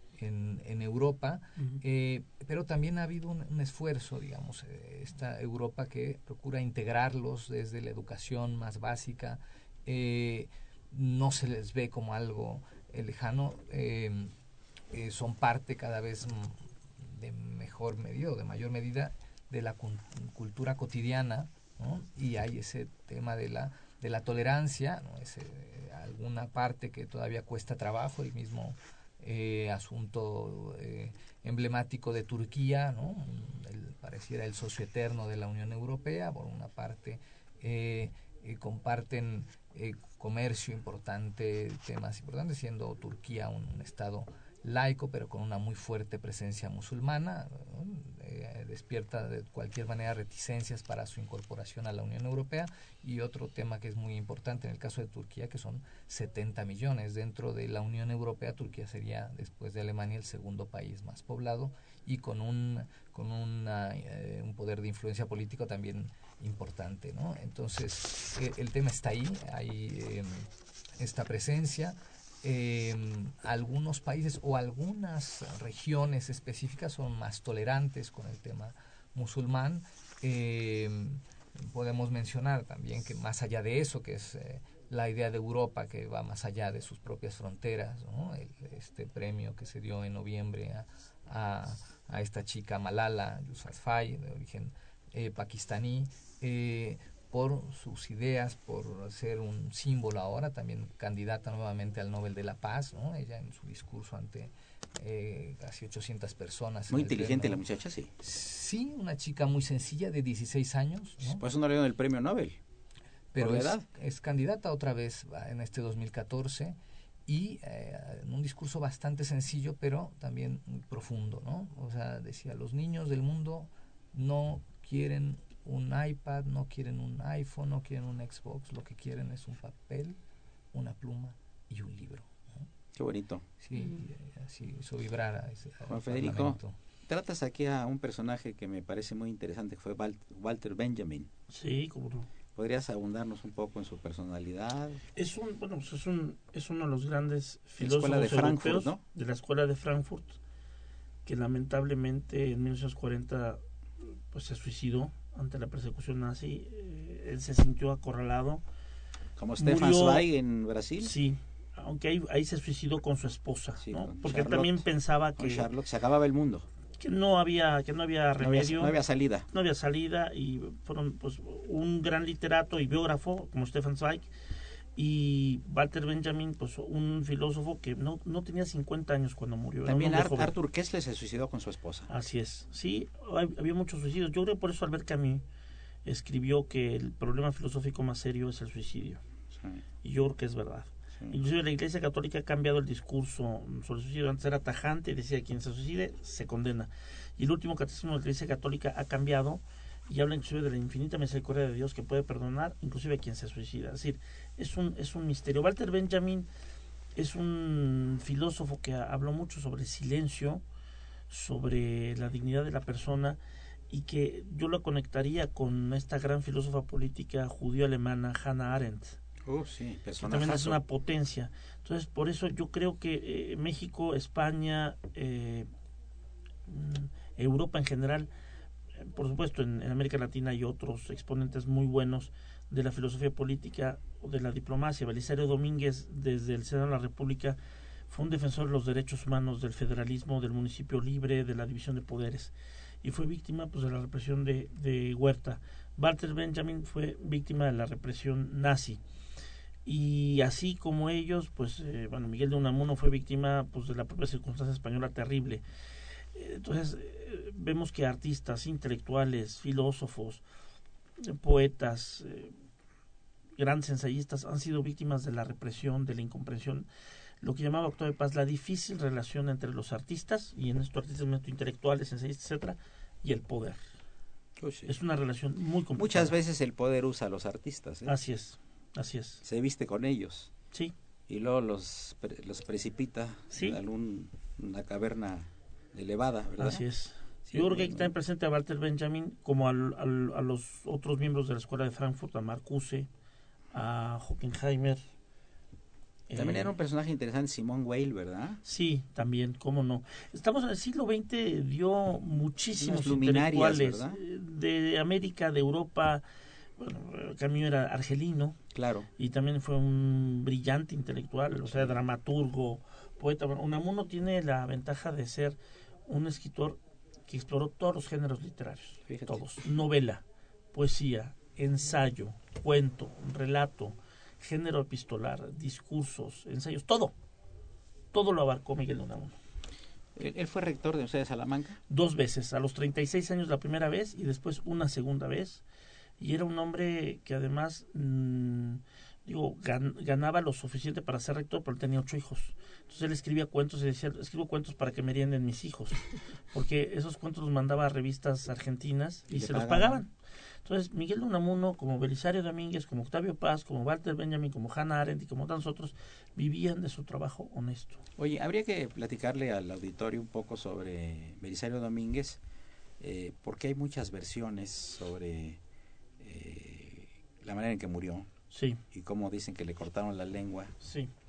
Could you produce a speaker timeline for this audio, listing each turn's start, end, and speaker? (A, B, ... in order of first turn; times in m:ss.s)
0:00.2-0:14.3 A
0:14.9-1:10.5 A
1:11.0-1:47.6 A
1:46.9-1:48.1 B
1:48.2-1:51.4 A
1:51.2-1:52.6 B
1:53.3-2:10.2 A
1:53.4-1:53.8 B
2:10.7-2:12.6 A
2:12.9-2:13.5 B
2:13.6-2:16.8 A
2:15.8-2:21.3 B
2:21.5-2:22.3 C
2:22.5-2:25.0 B
2:25.2-2:30.4 C
2:27.8-2:29.0 B
2:31.2-2:33.6 C
2:34.3-2:38.6 C
2:39.4-2:41.2 B
2:39.6-2:40.2 C
2:41.0-2:45.7 C
2:43.8-2:46.7 B
2:47.0-2:48.9 C
2:48.4-2:49.5 B
2:49.5-2:54.3 C
2:55.0-3:00.5 C
2:59.8-3:02.1 B
3:02.1-3:05.4 C
3:06.0-3:09.2 C
3:09.5-3:09.8 B
3:10.0-3:26.5 C
3:27.2-3:30.6 C
3:31.3-3:33.4 C
3:33.9-3:39.2 C
3:39.4-3:40.8 B
3:40.2-3:45.7 C
3:46.7-3:48.3 C
3:49.0-3:57.6 C
3:58.1-4:09.0 C
4:09.8-4:15.6 C
4:16.3-4:20.4 C
4:21.2-4:22.6 C
4:23.6-4:26.9 C
4:27.4-4:33.8 C
4:34.6-4:35.0 B
4:34.8-4:36.3 C
4:35.9-4:38.2 B
4:38.0-4:39.4 C
4:39.4-4:40.5 B
4:41.3-4:46.8 B
4:43.5-4:43.8 C
4:46.6-4:53.1 C
4:47.5-4:48.1 B
4:53.7-4:55.0 C
4:56.3-4:56.7 C
4:56.3-4:58.6 B
4:58.6-5:06.2 C
5:02.8-5:04.2 B
5:06.8-5:08.6 C
5:08.7-5:09.1 B
5:09.2-5:27.1 C
5:11.6-5:12.0 B
5:19.1-5:19.5 B
5:28.1-5:29.4 C
5:30.2-5:31.8 B
5:31.9-5:35.6 C
5:36.2-5:50.1 C
5:49.3-5:50.0 B
5:50.6-5:58.0 C
5:58.2-6:02.4 B
6:03.0-6:05.6 B
6:06.2-6:08.3 B
6:08.5-6:08.8 C
6:08.9-6:10.7 B
6:10.8-6:11.1 C